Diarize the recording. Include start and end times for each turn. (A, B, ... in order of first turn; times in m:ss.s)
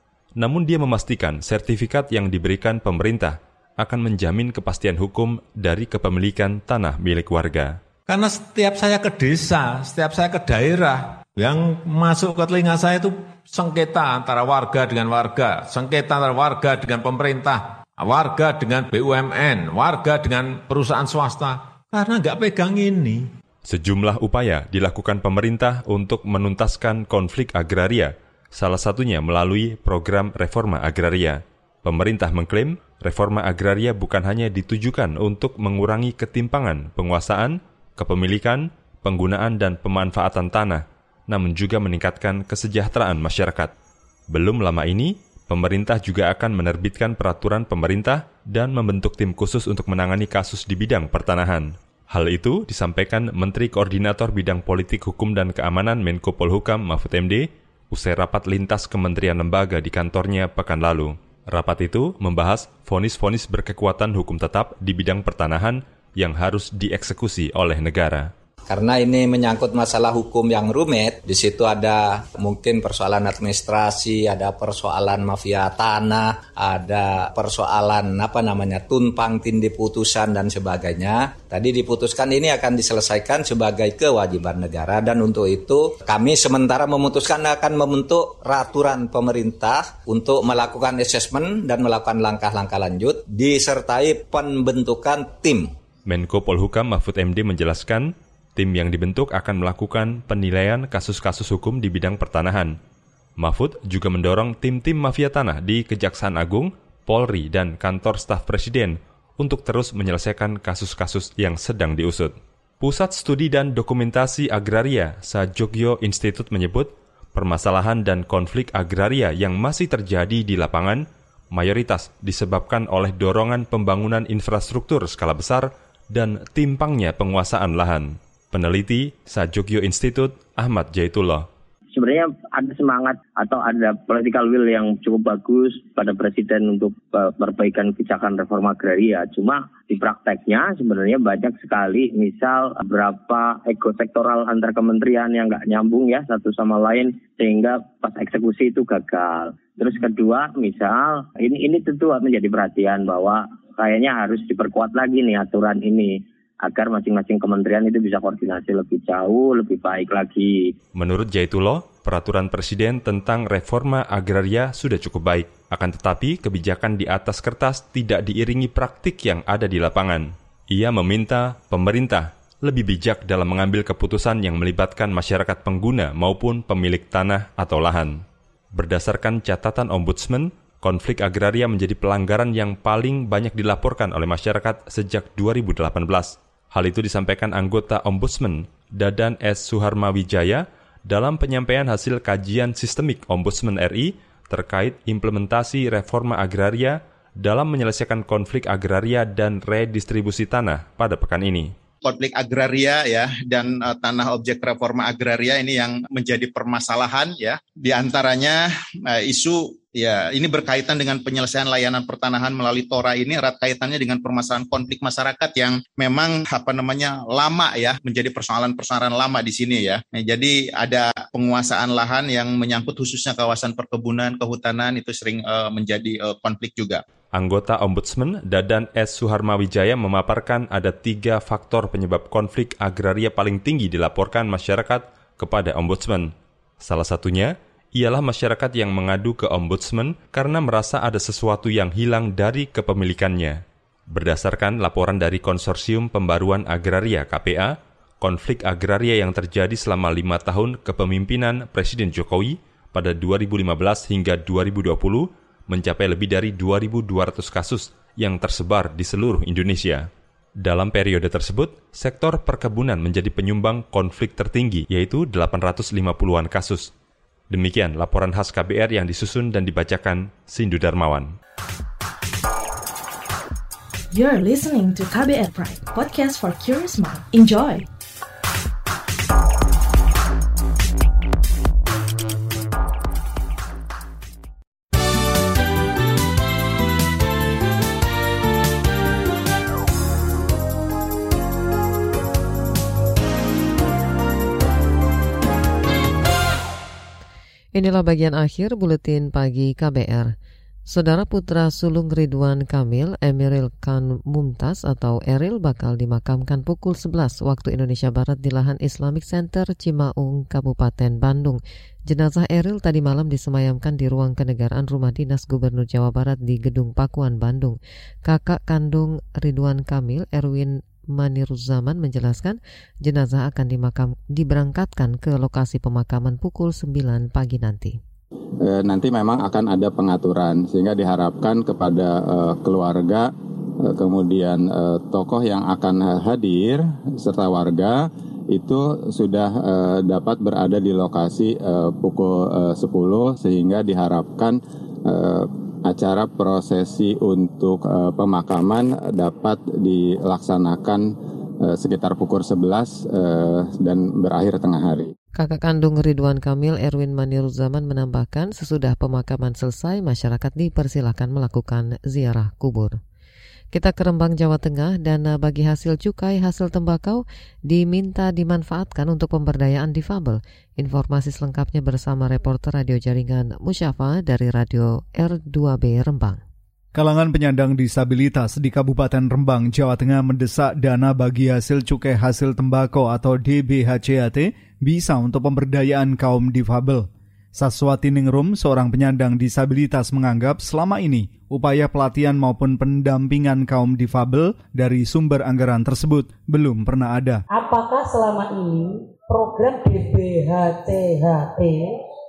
0:00.4-0:07.8 A
0:08.1-0:23.2 B
0:23.6-0:43.7 A
0:44.3-1:08.3 A
1:08.7-1:35.7 C
1:36.0-1:42.8 A
1:43.4-2:11.5 A
2:12.0-2:40.7 D
2:40.9-3:21.7 A
3:22.0-3:47.0 E
3:47.3-4:20.1 A
4:20.6-4:26.9 A
4:27.5-4:31.3 A
4:34.1-4:37.8 F
4:57.7-5:00.3 G
5:00.8-5:28.0 G
5:28.6-5:51.1 H
5:51.6-5:55.1 H
5:55.4-6:03.0 G
6:03.7-6:16.4 G
6:16.9-6:37.4 I
6:37.5-6:41.9 J